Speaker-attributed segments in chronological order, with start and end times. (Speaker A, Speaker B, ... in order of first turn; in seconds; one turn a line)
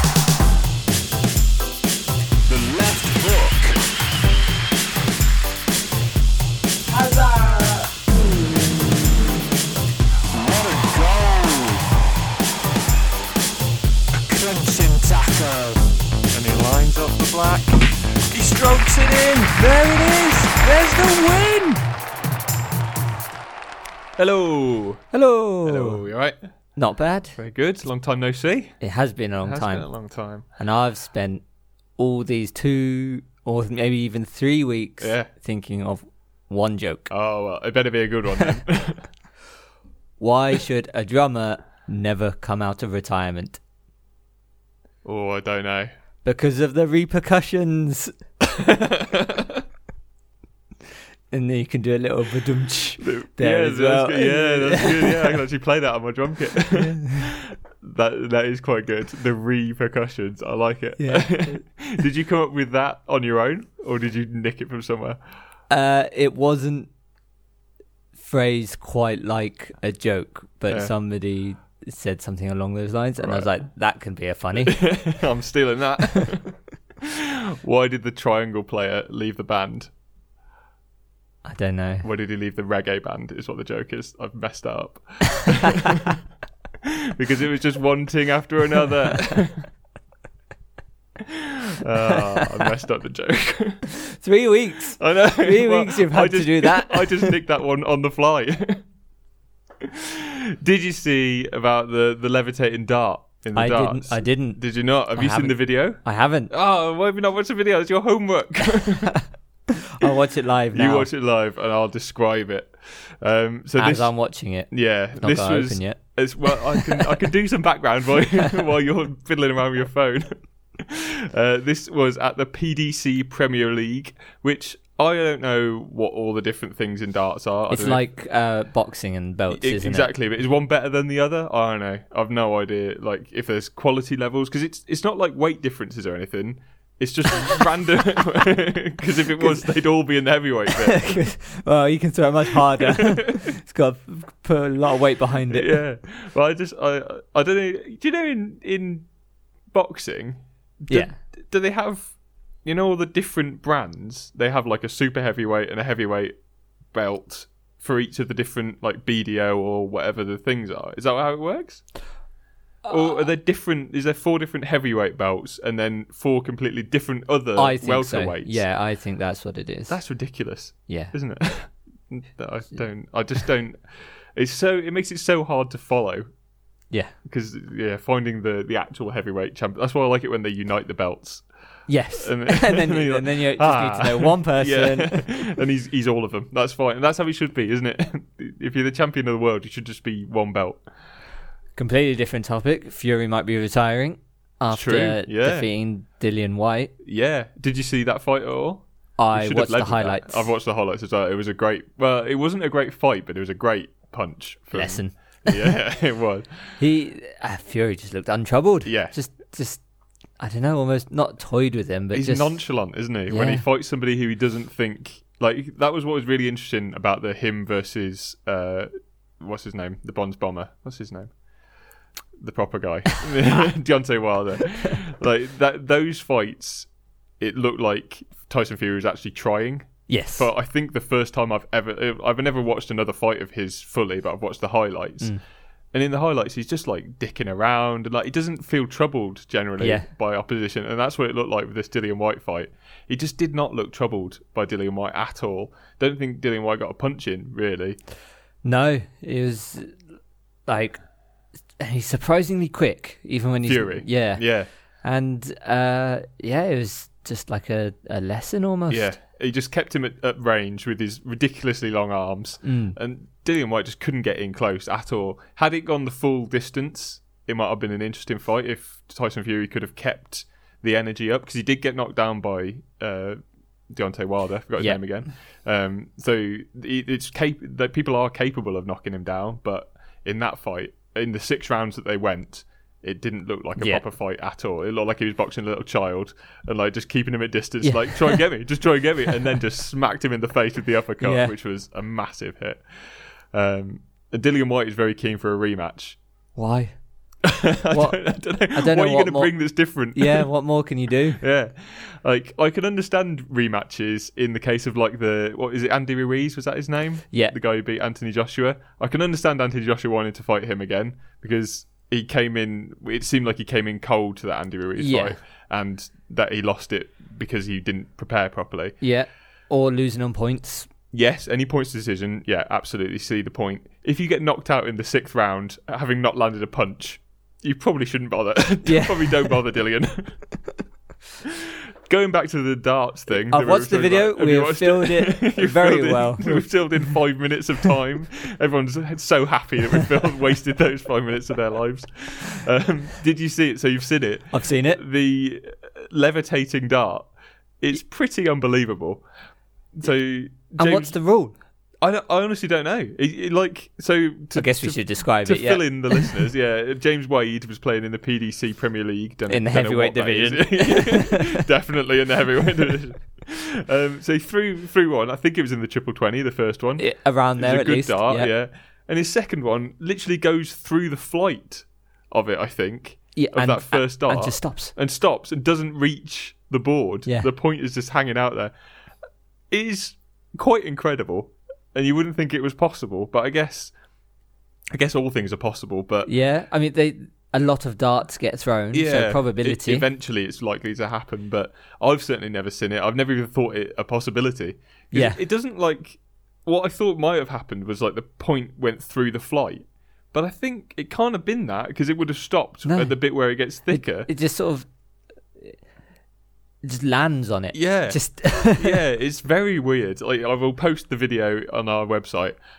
Speaker A: 2.5-3.8
Speaker A: 6.9-8.6
Speaker A: 10.3-11.9
Speaker A: 14.2-15.8
Speaker B: 16.3-17.7
Speaker A: 18.3-19.4
Speaker B: 18.4-21.6
Speaker B: 24.2-25.0
Speaker C: 25.1-26.1
Speaker B: 25.6-26.4
Speaker C: 26.8-27.4
Speaker B: 27.4-28.8
Speaker C: 28.8-29.9
Speaker B: 29.4-30.5
Speaker C: 30.6-31.4
Speaker C: 32.0-37.1
Speaker B: 35.0-35.3
Speaker B: 37.1-39.0
Speaker C: 40.2-43.6
Speaker B: 45.0-45.9
Speaker C: 46.2-48.1
Speaker B: 48.4-49.6
Speaker C: 51.3-55.4
Speaker B: 53.0-65.2
Speaker C: 56.8-57.3
Speaker C: 61.0-61.6
Speaker C: 65.7-66.9
Speaker C: 68.2-74.8
Speaker B: 73.2-73.5
Speaker B: 74.7-79.9
Speaker C: 81.5-82.1
Speaker B: 82.0-86.2
Speaker B: 86.8-89.7
Speaker B: 91.3-93.8
Speaker C: 93.9-97.3
Speaker B: 95.0-98.8
Speaker B: 99.8-109.2
Speaker C: 103.5-106.5
Speaker C: 109.9-111.1
Speaker B: 110.7-114.1
Speaker C: 113.8-116.0
Speaker B: 114.7-128.0
Speaker C: 127.7-130.1
Speaker B: 129.5-141.1
Speaker C: 140.8-145.8
Speaker B: 142.5-143.4
Speaker B: 145.5-149.1
Speaker B: 149.7-152.1
Speaker C: 150.9-151.2
Speaker B: 152.6-156.4
Speaker B: 156.9-161.9
Speaker C: 162.8-163.2
Speaker B: 162.9-168.6
Speaker C: 167.6-170.0
Speaker B: 169.9-173.8
Speaker C: 170.9-171.1
Speaker B: 174.3-176.3
Speaker B: 177.2-181.5
Speaker C: 181.9-185.3
Speaker B: 182.2-190.8
Speaker C: 191.8-196.9
Speaker B: 194.7-195.7
Speaker B: 197.0-206.5
Speaker C: 199.2-200.5
Speaker C: 204.7-205.7
Speaker C: 206.8-209.8
Speaker B: 208.8-209.2
Speaker C: 210.4-212.7
Speaker B: 212.1-221.3
Speaker C: 213.3-213.6
Speaker B: 222.4-226.9
Speaker B: 227.4-235.3
Speaker C: 230.1-230.5
Speaker B: 235.9-248.0
Speaker C: 239.8-240.1
Speaker C: 248.6-249.9
Speaker C: 250.7-251.0
Speaker C: 251.8-254.4
Speaker B: 253.7-254.7
Speaker C: 255.0-259.2
Speaker B: 258.9-292.8
Speaker C: 262.6-263.0
Speaker C: 283.8-284.0
Speaker C: 287.8-288.4
Speaker C: 291.2-291.5
Speaker B: 293.5-296.2
Speaker C: 296.6-297.0
Speaker B: 297.4-300.5
Speaker C: 297.9-299.6
Speaker C: 300.1-301.4
Speaker B: 301.4-319.0
Speaker C: 315.0-315.4
Speaker C: 319.0-320.9
Speaker B: 321.1-330.4
Speaker C: 328.8-329.4
Speaker B: 332.1-349.2
Speaker C: 333.5-336.7
Speaker C: 344.5-345.0
Speaker B: 349.9-351.2
Speaker C: 350.8-351.6
Speaker B: 352.0-378.7
Speaker C: 354.6-356.4
Speaker C: 359.5-361.6
Speaker C: 367.0-368.5
Speaker C: 373.4-374.9
Speaker B: 379.7-383.9
Speaker B: 384.9-386.3
Speaker C: 386.2-390.1
Speaker B: 388.9-404.3
Speaker C: 395.1-395.4
Speaker C: 402.8-403.2
Speaker C: 403.9-404.9
Speaker C: 406.8-409.0
Speaker B: 407.7-412.6